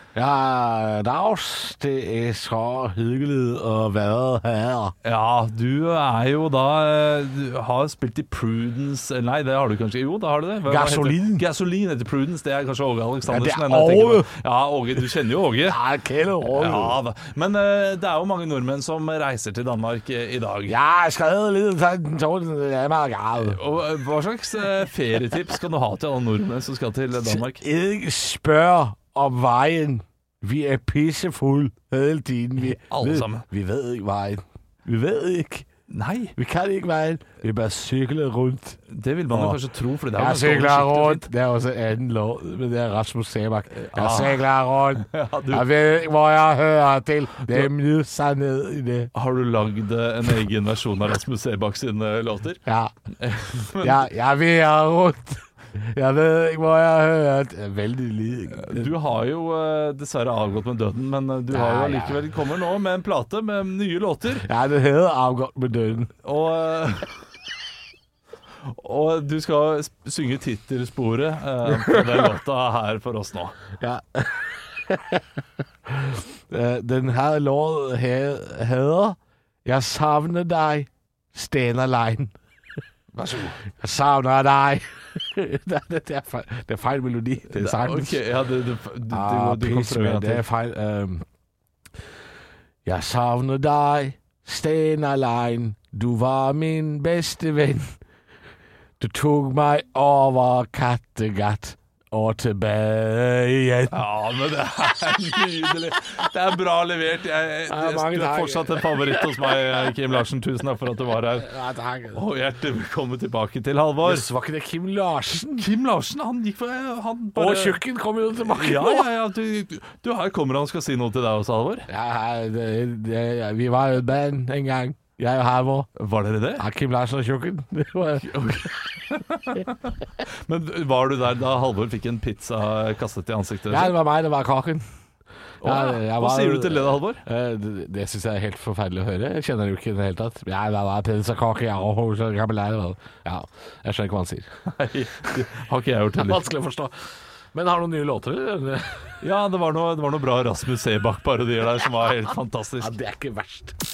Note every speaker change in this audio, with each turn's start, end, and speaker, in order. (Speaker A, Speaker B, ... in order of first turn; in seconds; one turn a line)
Speaker A: 0.1-4.9
Speaker B: 5.0-15.8
Speaker A: 10.7-11.4
Speaker A: 13.3-14.3
Speaker A: 15.6-17.0
Speaker B: 16.5-20.7
Speaker A: 20.6-23.6
Speaker B: 23.4-27.6
Speaker A: 27.2-35.7
Speaker B: 32.6-33.5
Speaker B: 35.9-36.3
Speaker A: 36.4-38.8
Speaker B: 38.9-41.3
Speaker A: 39.3-39.6
Speaker A: 40.1-49.1
Speaker B: 43.7-45.6
Speaker B: 49.1-52.6
Speaker A: 52.6-52.9
Speaker B: 53.2-54.1
Speaker A: 53.8-58.9
Speaker B: 58.5-64.5
Speaker A: 61.5-62.2
Speaker A: 64.4-66.1
Speaker B: 66.2-67.1
Speaker B: 68.6-73.6
Speaker A: 71.8-72.1
Speaker A: 73.8-75.2
Speaker A: 76.0-82.3
Speaker A: 83.3-88.2
Speaker B: 87.5-90.4
Speaker A: 89.1-91.2
Speaker A: 92.8-97.9
Speaker A: 99.0-103.9
Speaker B: 103.9-111.5
Speaker A: 107.7-109.8
Speaker A: 111.4-112.2
Speaker B: 112.1-114.2
Speaker A: 114.0-115.7
Speaker B: 115.5-117.8
Speaker A: 117.3-119.1
Speaker B: 118.4-121.8
Speaker A: 121.9-125.9
Speaker B: 126.0-126.6
Speaker A: 126.6-128.3
Speaker B: 128.2-133.9
Speaker A: 133.7-134.8
Speaker B: 135.6-137.2
Speaker A: 135.6-144.5
Speaker B: 144.7-146.4
Speaker A: 146.1-146.9
Speaker A: 147.5-148.8
Speaker B: 149.2-152.9
Speaker A: 152.8-153.7